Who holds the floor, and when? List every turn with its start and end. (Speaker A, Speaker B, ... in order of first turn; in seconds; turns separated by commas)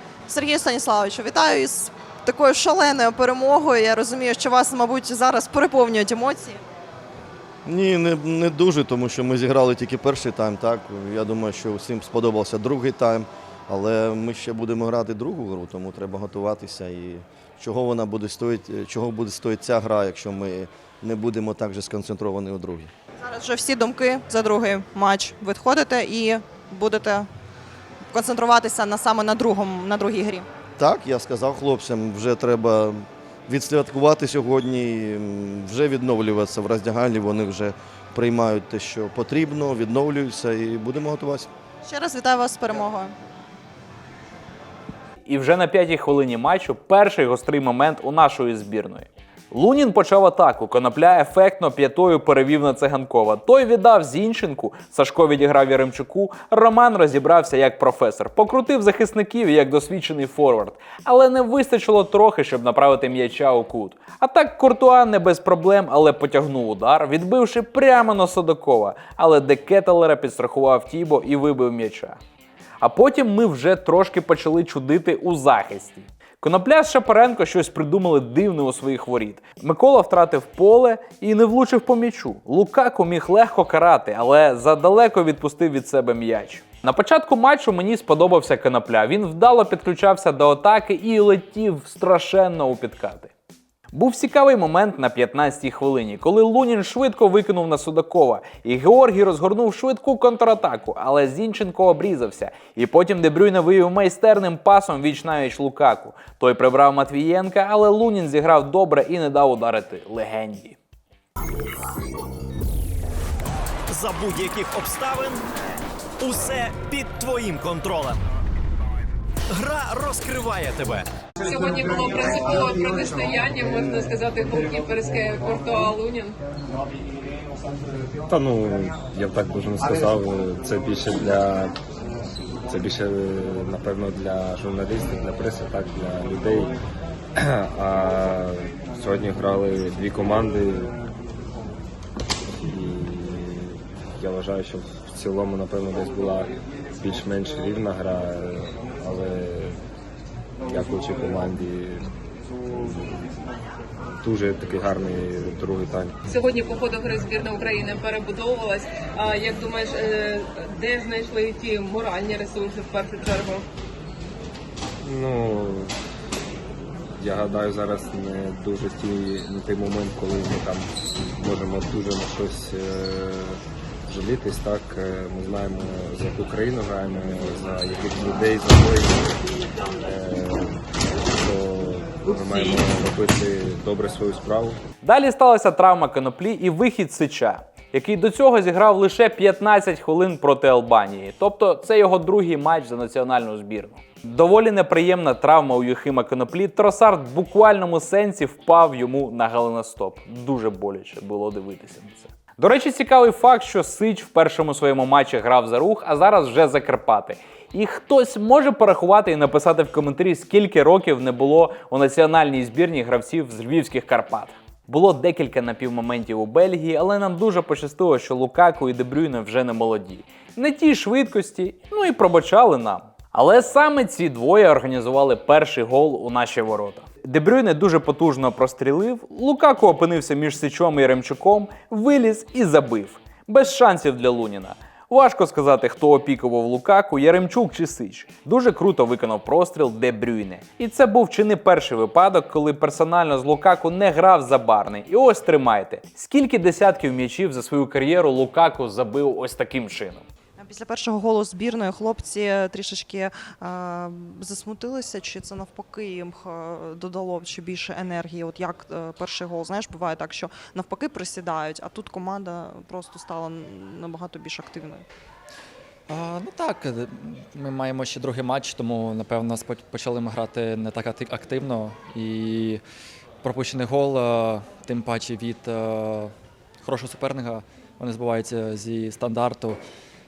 Speaker A: 0.3-6.6, Speaker B: 7.6-22.9, Speaker A: 23.2-27.3, Speaker A: 28.1-30.4, Speaker B: 30.8-41.5, Speaker A: 41.8-43.1, Speaker C: 45.2-72.2, Speaker C: 72.8-93.3, Speaker C: 93.9-110.8, Speaker D: 113.9-115.4, Speaker D: 116.2-118.2, Speaker D: 119.5-121.1, Speaker E: 121.4-126.4, Speaker F: 128.3-131.8, Speaker F: 132.7-136.8, Speaker F: 137.3-140.9, Speaker F: 142.5-149.8, Speaker F: 150.7-152.1, Speaker F: 152.7-153.4, Speaker F: 154.2-156.1, Speaker E: 156.3-163.6, Speaker F: 165.0-165.9, Speaker F: 167.2-179.4, Speaker F: 180.0-184.8, Speaker C: 185.0-250.2, Speaker A: 250.6-265.0, Speaker G: 266.1-272.8, Speaker G: 273.4-279.8